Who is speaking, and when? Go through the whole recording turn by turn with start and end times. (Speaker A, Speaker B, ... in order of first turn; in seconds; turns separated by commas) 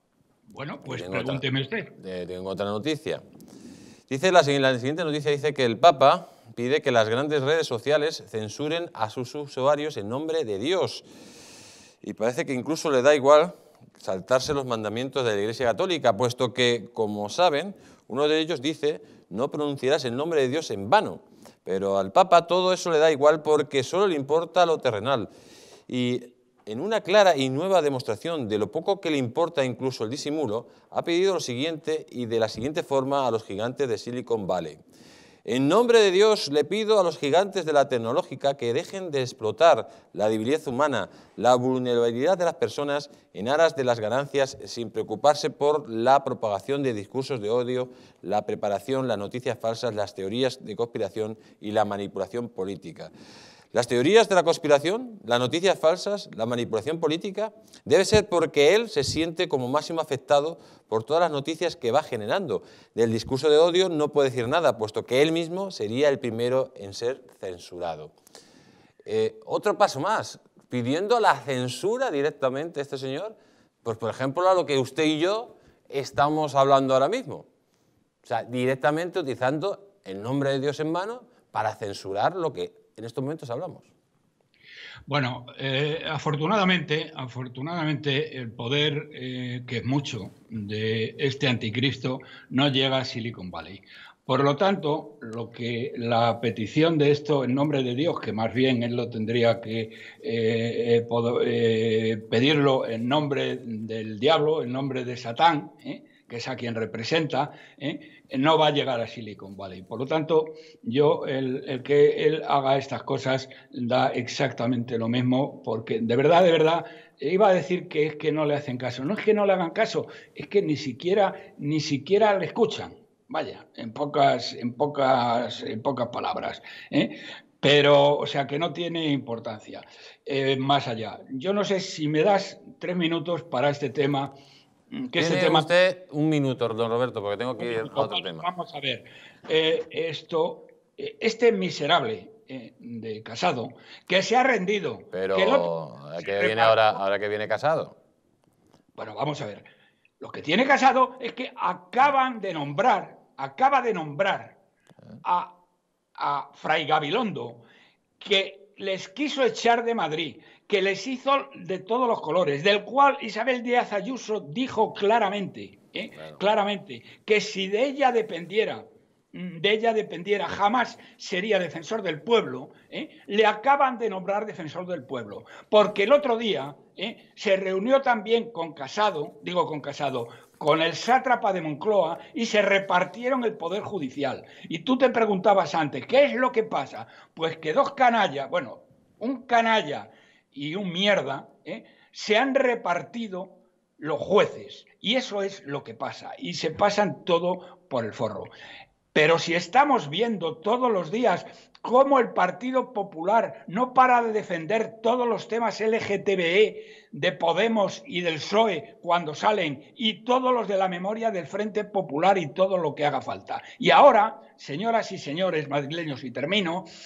Speaker A: 0.5-1.9, Speaker B: 0.8-1.4, Speaker B: 2.0-3.2, Speaker B: 4.1-11.1, Speaker B: 12.0-25.3, Speaker B: 25.9-34.8, Speaker B: 35.5-53.1, Speaker B: 53.7-68.1, Speaker B: 69.0-77.5, Speaker B: 78.2-83.9, Speaker A: 85.1-134.4, Speaker A: 134.9-135.7, Speaker B: 135.2-138.5, Speaker A: 137.6-147.0, Speaker B: 145.1-147.9, Speaker A: 149.0-149.7, Speaker A: 150.2-154.6, Speaker A: 155.2-155.5, Speaker A: 156.2-157.6, Speaker A: 158.2-198.5, Speaker B: 166.2-166.4, Speaker A: 199.1-216.9